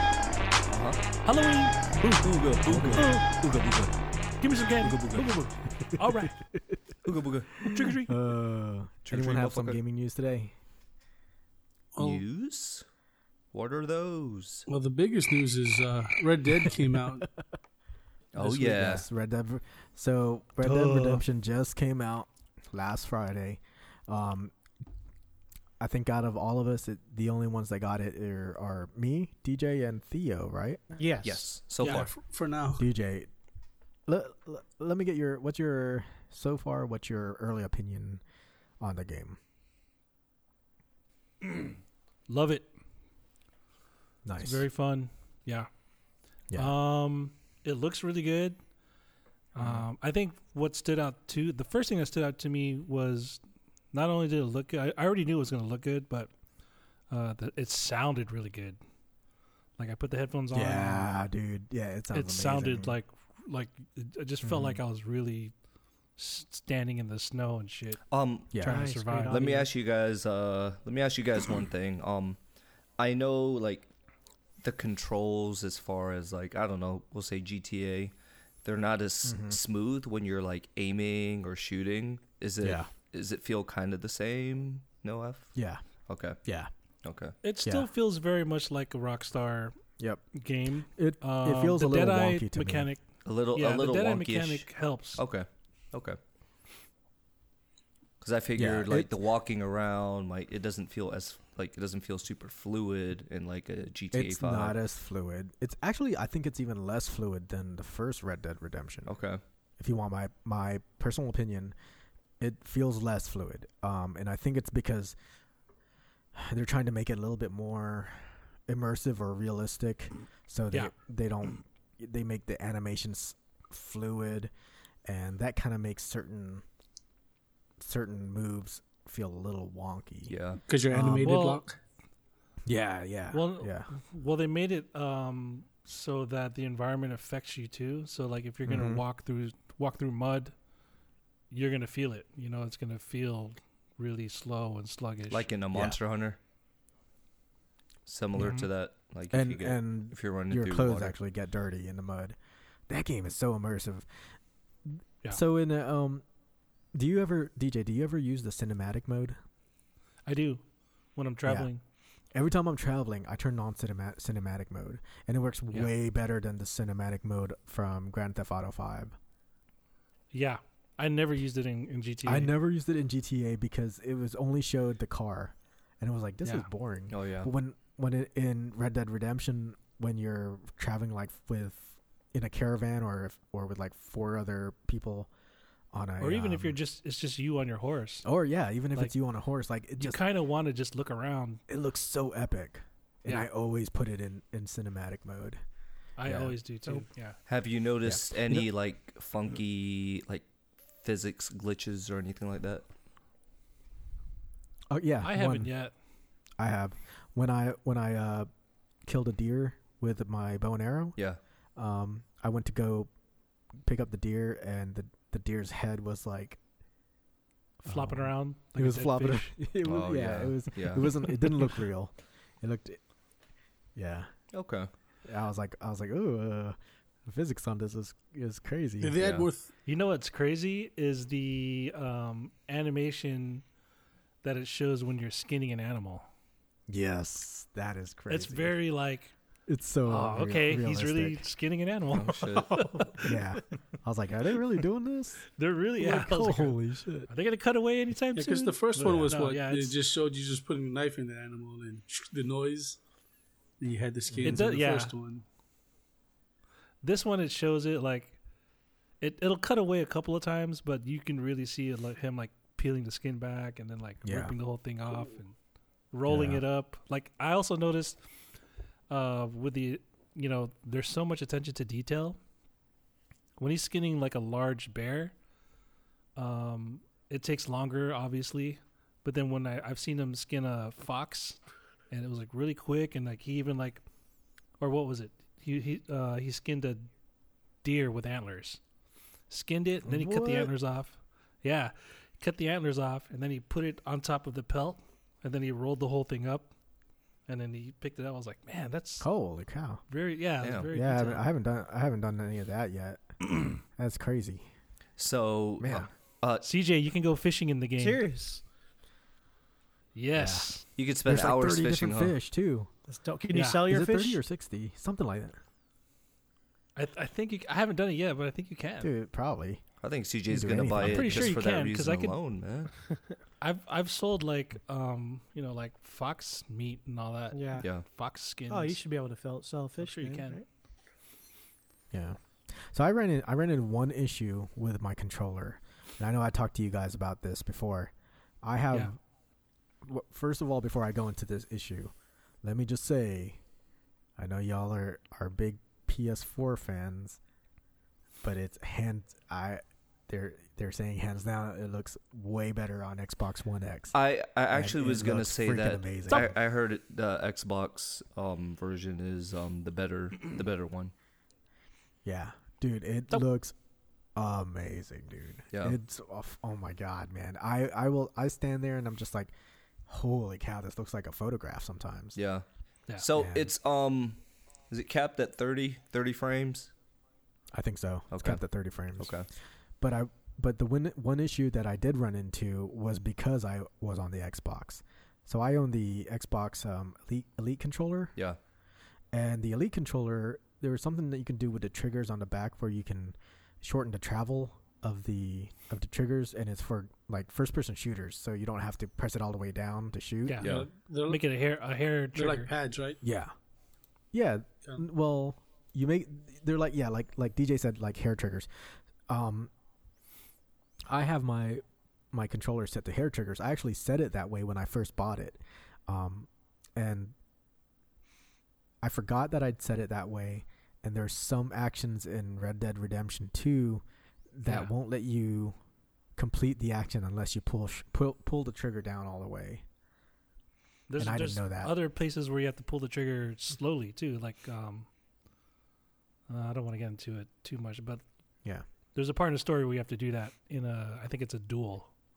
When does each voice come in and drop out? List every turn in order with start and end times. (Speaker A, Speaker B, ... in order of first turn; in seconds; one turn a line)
Speaker A: 0.7-1.0
Speaker B: 1.2-1.9
Speaker A: 2.1-3.9
Speaker C: 2.7-3.1
Speaker B: 4.4-6.4
Speaker A: 4.8-5.4
Speaker C: 5.8-6.6
Speaker A: 7.0-7.7
Speaker B: 7.6-8.2
Speaker C: 7.6-10.5
Speaker A: 9.1-9.8
Speaker D: 11.9-12.2
Speaker A: 12.0-12.8
Speaker A: 13.5-14.7
Speaker D: 14.7-17.3
Speaker A: 18.3-19.1
Speaker C: 18.4-24.5
Speaker B: 20.6-21.2
Speaker C: 25.8-30.8
Speaker E: 30.9-31.5
Speaker A: 31.2-32.1
Speaker D: 31.8-32.9
Speaker C: 32.8-33.3
Speaker C: 34.1-38.2
Speaker C: 38.8-39.4
Speaker B: 41.4-41.8
Speaker B: 42.3-42.7
Speaker C: 44.2-44.7
Speaker B: 44.4-45.7
Speaker B: 46.5-48.6
Speaker B: 49.5-53.4
Speaker C: 49.6-49.9
Speaker B: 53.9-56.3
Speaker B: 57.1-58.8
Speaker B: 59.8-61.1
Speaker C: 60.5-63.0
Speaker B: 62.1-65.5
Speaker C: 64.4-64.8
Speaker B: 66.2-68.0
Speaker A: 68.1-68.6
Speaker C: 68.5-68.9
Speaker B: 68.6-69.5
Speaker E: 68.7-69.7
Speaker A: 69.3-72.4
Speaker A: 73.0-73.9
Speaker A: 74.6-78.1
Speaker A: 78.6-85.5
Speaker C: 79.2-79.6
Speaker C: 82.6-82.9
Speaker C: 85.5-85.8
Speaker A: 86.1-86.4
Speaker C: 86.5-86.7
Speaker A: 87.0-87.3
Speaker B: 87.4-89.8
Speaker C: 90.0-90.2
Speaker B: 90.3-95.2
Speaker C: 91.0-92.9
Speaker A: 93.2-94.7
Speaker A: 95.2-96.2
Speaker A: 98.2-104.8
Speaker C: 98.5-99.1
Speaker C: 104.1-109.1
Speaker A: 109.1-109.4
Speaker C: 109.8-111.8
Speaker C: 112.4-115.2
Speaker C: 116.3-124.5
Speaker C: 125.0-126.6
Speaker C: 127.8-130.3
Speaker A: 130.3-130.6
Speaker D: 130.7-131.8
Speaker C: 130.9-131.4
Speaker B: 131.2-131.6
Speaker C: 132.7-133.9
Speaker B: 133.3-140.5
Speaker C: 138.7-139.0
Speaker B: 141.5-145.5
Speaker A: 145.3-146.4
Speaker A: 148.1-151.2
Speaker B: 148.4-148.7
Speaker C: 149.3-152.4
Speaker C: 152.9-154.1
Speaker C: 154.9-156.2
Speaker C: 156.9-159.4
Speaker B: 160.3-160.6
Speaker B: 161.2-161.8
Speaker C: 161.4-161.7
Speaker C: 162.3-169.2
Speaker B: 170.3-172.5
Speaker C: 172.2-185.3
Speaker A: 177.1-177.5
Speaker C: 185.9-186.8
Speaker B: 186.2-188.3
Speaker C: 188.2-190.2
Speaker B: 190.0-191.6
Speaker C: 191.7-195.6
Speaker B: 196.2-197.4
Speaker C: 196.2-196.6
Speaker A: 197.5-200.5
Speaker C: 198.0-198.7
Speaker A: 201.0-202.9
Speaker C: 204.9-205.7
Speaker B: 205.2-205.9
Speaker C: 206.6-208.5
Speaker C: 209.1-211.2
Speaker C: 211.8-213.1
Speaker C: 213.8-216.6
Speaker B: 217.8-219.5
Speaker C: 217.9-223.0
Speaker A: 219.8-221.3
Speaker C: 223.9-224.3
Speaker A: 224.5-224.9
Speaker C: 225.2-229.2
Speaker D: 229.0-229.7
Speaker A: 229.2-229.5
Speaker B: 229.9-233.7
Speaker B: 234.4-236.3
Speaker C: 236.9-238.8
Speaker B: 238.3-239.3
Speaker C: 239.7-241.4
Speaker B: 240.1-243.4
Speaker A: 242.1-242.9
Speaker C: 243.2-245.4
Speaker B: 245.6-249.9
Speaker C: 246.0-247.3
Speaker D: 248.3-253.0
Speaker D: 253.8-255.4
Speaker C: 254.3-254.6
Speaker B: 254.4-255.1
Speaker B: 257.0-258.4
Speaker B: 259.2-265.6
Speaker C: 264.2-264.5
Speaker B: 266.1-268.2
Speaker C: 266.3-266.6
Speaker B: 269.1-272.4
Speaker B: 273.6-275.4
Speaker B: 276.4-284.0
Speaker B: 284.8-287.1
Speaker B: 287.8-288.8
Speaker B: 289.5-296.7
Speaker C: 290.0-290.7
Speaker B: 297.5-299.3
Speaker C: 299.2-300.0
Speaker B: 300.1-301.4
Speaker A: 300.6-300.9
Speaker C: 300.9-304.6
Speaker A: 305.2-306.7
Speaker C: 305.8-306.1
Speaker B: 306.6-308.3
Speaker E: 308.0-308.6
Speaker B: 310.1-310.9
Speaker C: 310.4-310.7
Speaker A: 311.0-312.4
Speaker C: 311.3-312.9
Speaker E: 313.1-314.4
Speaker B: 313.5-313.9
Speaker C: 313.9-315.6
Speaker B: 317.0-319.1
Speaker C: 319.0-319.8
Speaker A: 320.0-322.9
Speaker C: 320.5-321.6
Speaker B: 321.0-322.4
Speaker B: 323.6-329.0
Speaker E: 327.5-327.9
Speaker A: 327.8-328.1
Speaker E: 328.7-330.6
Speaker B: 330.0-330.6
Speaker C: 332.1-339.2
Speaker C: 340.0-343.6
Speaker C: 344.4-347.4
Speaker C: 348.4-354.2
Speaker A: 354.1-361.1
Speaker C: 354.7-356.5
Speaker C: 362.2-363.8
Speaker C: 364.4-369.5
Speaker C: 370.1-372.4
Speaker A: 372.4-372.6
Speaker A: 373.2-374.4
Speaker C: 373.4-373.7
Speaker A: 374.9-376.9
Speaker C: 377.7-379.4
Speaker A: 378.3-378.6
Speaker A: 379.2-379.5
Speaker C: 380.0-388.3
Speaker C: 389.3-400.7
Speaker B: 400.5-402.7
Speaker A: 400.6-400.9
Speaker D: 400.6-401.4
Speaker D: 402.4-403.2
Speaker C: 403.2-403.5
Speaker C: 404.3-409.7
Speaker C: 411.1-417.4
Speaker C: 419.0-425.8
Speaker C: 426.4-429.8
Speaker B: 431.1-435.1
Speaker C: 431.2-431.9
Speaker B: 436.5-438.2
Speaker B: 439.1-442.1